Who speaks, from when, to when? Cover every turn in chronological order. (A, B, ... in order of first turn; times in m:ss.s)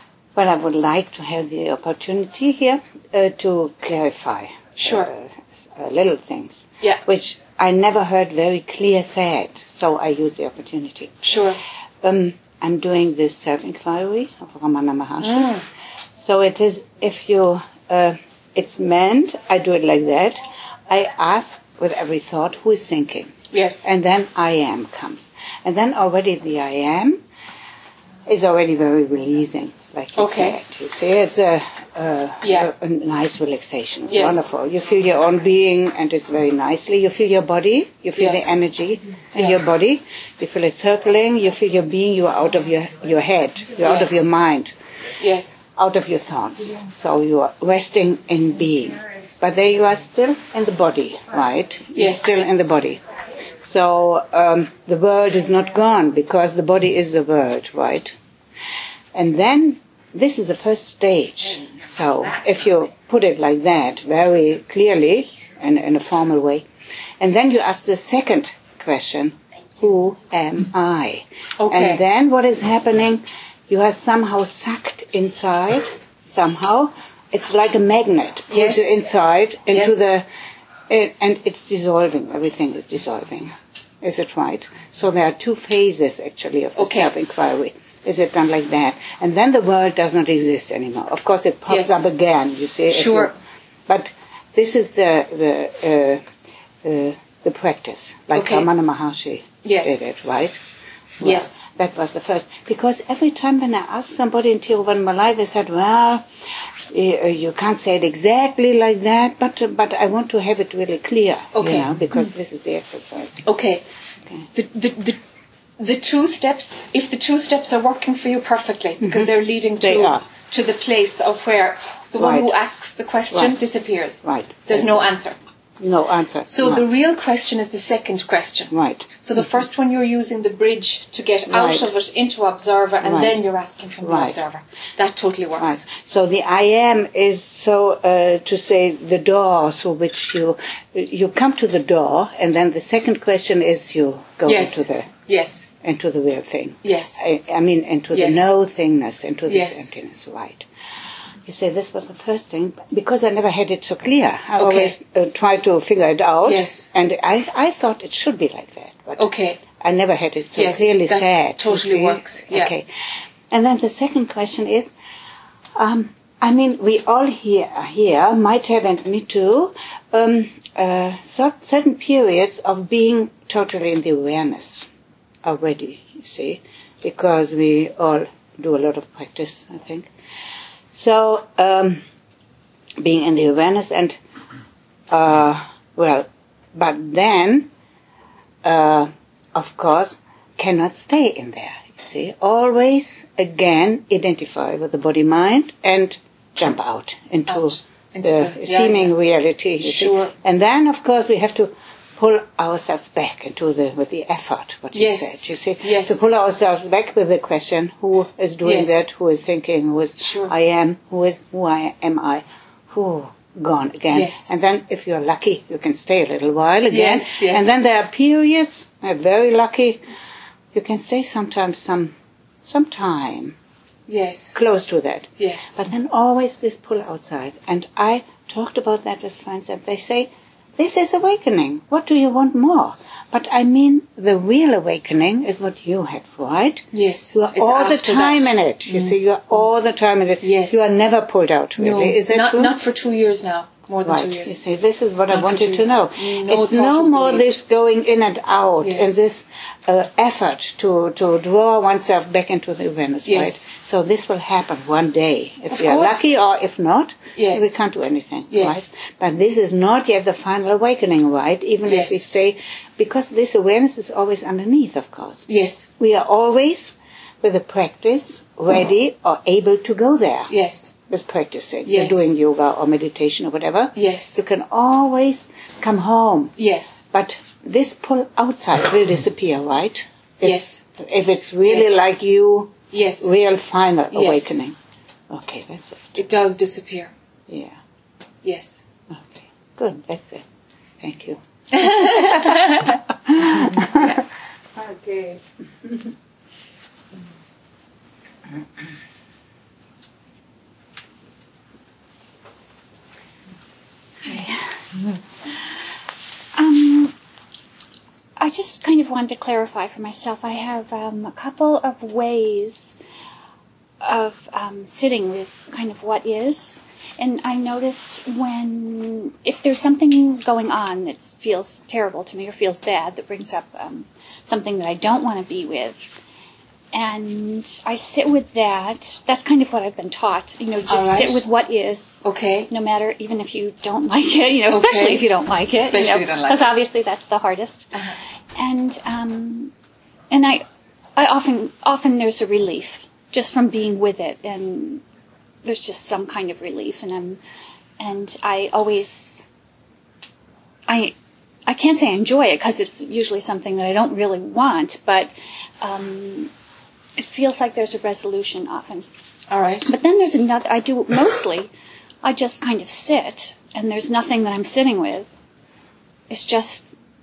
0:00.3-0:11.3 A
0:04.8-0:05.1 B
0:11.2-0:11.6 B
0:12.0-0:15.6 A
0:15.2-0:15.6 B
0:16.2-0:27.2 A
0:23.5-0:23.8 B
0:28.2-0:44.7 A
0:30.1-0:30.6 B
0:32.4-0:32.7 B
0:34.1-0:34.5 B
0:38.1-0:38.5 B
0:39.3-0:39.7 B
0:43.8-0:44.2 B
0:45.2-0:45.6 B
0:45.8-0:53.0 A
0:51.9-0:52.4 B
0:53.6-0:58.1 A
0:59.1-1:06.7 A
1:07.2-1:20.2 A
1:11.6-1:12.0 B
1:18.5-1:19.0 B
1:19.7-1:20.1 B
1:20.9-1:33.4 A
1:26.8-1:27.1 B
1:31.7-1:32.0 B
1:32.9-1:33.3 B
1:33.9-1:36.2 A
1:36.8-1:40.6 A
1:38.3-1:38.7 B
1:39.6-1:40.0 B
1:41.2-1:46.2 A
1:41.2-1:41.6 B
1:46.9-1:53.4 A
1:51.5-1:51.9 B
1:53.4-1:53.8 B
1:54.5-1:55.2 B
1:55.8-2:05.4 B
1:59.0-2:00.2 A
2:02.2-2:02.5 A
2:03.3-2:03.6 A
2:04.2-2:05.1 A
2:05.8-2:06.8 A
2:06.4-2:15.8 B
2:08.7-2:09.1 A
2:11.5-2:11.9 A
2:13.0-2:13.4 A
2:14.0-2:14.4 A
2:15.6-2:25.1 A
2:24.4-2:25.7 B
2:25.8-2:30.7 A
2:26.8-2:27.2 B
2:28.1-2:28.5 B
2:29.5-2:29.9 B
2:31.4-2:39.2 A
2:34.6-2:35.0 B
2:36.4-2:36.9 B
2:39.2-2:39.6 B
2:39.8-2:42.9 A
2:40.5-2:42.7 B
2:43.5-2:44.9 A
2:45.8-2:54.9 A
2:55.4-3:00.1 A
3:00.9-3:02.0 A
3:03.0-3:04.2 A
3:05.1-3:07.7 A
3:08.6-3:40.0 A
3:17.5-3:19.1 B
3:19.8-3:20.3 B
3:24.9-3:26.3 B
3:28.6-3:29.0 B
3:30.2-3:30.5 B
3:34.1-3:34.5 B
3:36.9-3:37.7 B
3:40.7-3:43.6 A
3:44.1-3:44.6 B
3:44.5-4:02.8 A
3:45.4-3:45.8 B
3:56.9-3:59.1 B
4:00.4-4:00.9 B
4:01.8-4:04.6 B
4:04.0-4:25.5 A
4:05.3-4:07.6 B
4:08.8-4:09.2 B
4:13.2-4:13.7 B
4:15.7-4:16.3 B
4:17.4-4:17.8 B
4:18.5-4:18.8 B
4:21.8-4:22.3 B
4:25.5-4:25.9 B
4:26.0-4:30.5 A
4:30.5-4:30.9 B
4:31.1-4:36.5 A
4:31.8-4:32.3 B
4:33.9-4:34.4 B
4:36.6-4:37.0 B
4:37.1-4:44.8 A
4:40.4-4:40.8 B
4:41.6-4:42.0 B
4:42.9-4:43.3 B
4:44.1-4:44.6 B
4:45.3-4:46.2 A
4:46.2-4:47.1 B
4:47.5-4:47.8 A
4:48.4-4:48.8 B
4:49.1-4:50.4 A
4:51.0-4:54.2 A
4:54.8-4:55.9 A
5:04.2-5:04.7 C
5:06.6-5:07.1 C
5:08.4-5:13.0 C
5:14.0-5:26.0 C
5:26.9-5:37.9 C
5:30.9-5:31.4 B
5:32.2-5:32.7 B
5:34.7-5:36.7 B
5:38.6-5:39.7 C
5:40.3-5:40.6 C
5:41.2-5:45.0 C
5:45.6-5:47.4 C
5:48.0-5:49.4 C
5:50.9-5:51.1 C
5:51.7-5:56.5 C
5:57.2-5:59.1 C
5:59.5-5:59.9 B
5:59.8-6:01.7 C
6:02.2-6:05.3 C
6:06.3-6:06.9 C